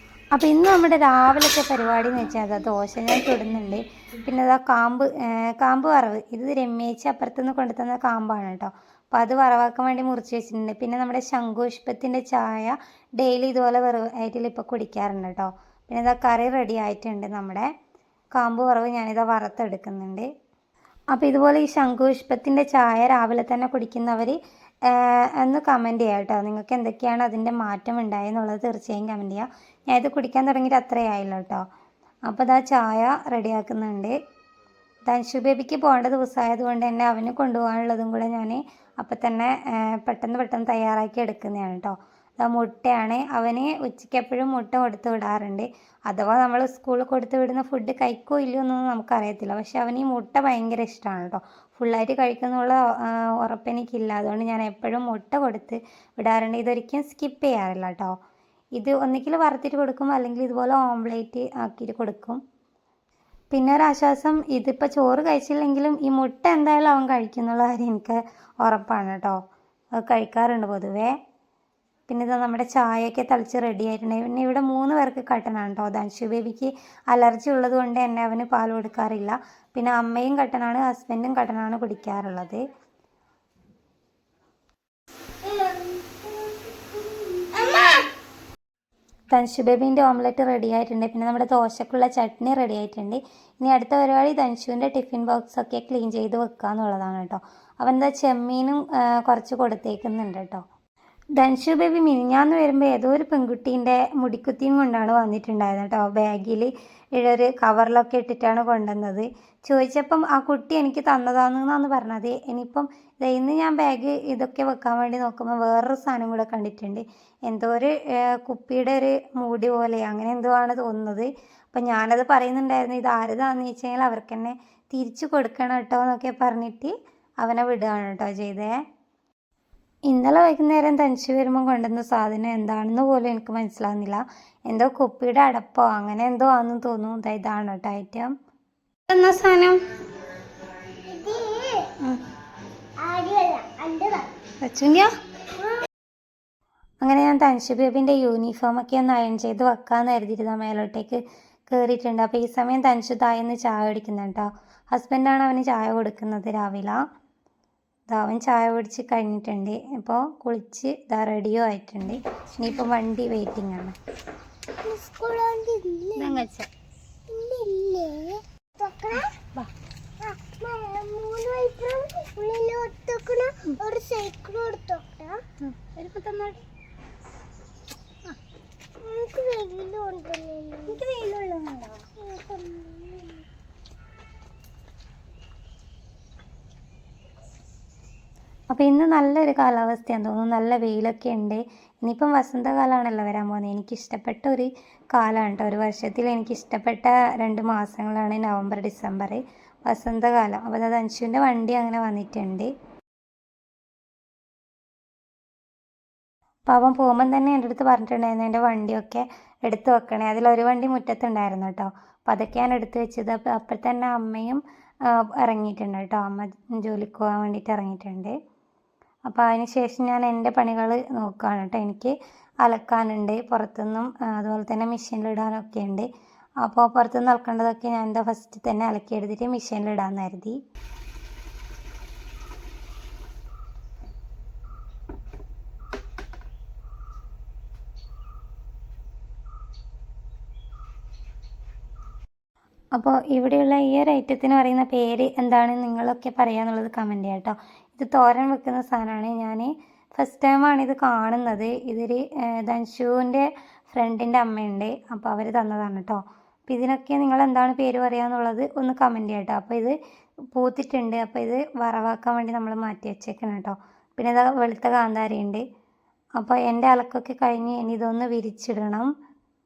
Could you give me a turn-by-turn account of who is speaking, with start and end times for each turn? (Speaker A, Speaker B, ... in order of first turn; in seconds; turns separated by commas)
Speaker A: 0.3-17.7, Speaker A: 18.3-20.3, Speaker A: 21.1-31.6, Speaker A: 32.3-34.1, Speaker A: 35.0-58.1, Speaker A: 58.8-62.4, Speaker A: 63.5-69.4, Speaker A: 69.9-71.2, Speaker A: 72.1-82.7, Speaker B: 85.4-88.0, Speaker A: 89.3-100.6, Speaker A: 101.3-128.8, Speaker A: 130.1-138.3, Speaker A: 139.1-139.8, Speaker B: 141.1-141.9, Speaker B: 143.0-144.3, Speaker A: 144.6-145.1, Speaker A: 147.0-157.0, Speaker A: 158.1-163.9, Speaker B: 164.8-166.4, Speaker A: 166.2-166.7, Speaker B: 167.3-169.3, Speaker B: 170.2-175.4, Speaker A: 175.7-176.6, Speaker B: 179.0-181.3, Speaker A: 180.9-181.8, Speaker B: 181.9-183.4, Speaker A: 188.7-202.7, Speaker A: 206.7-218.3, Speaker A: 219.3-226.1, Speaker A: 226.6-230.6, Speaker A: 242.9-259.9, Speaker A: 260.5-265.6, Speaker A: 266.4-269.1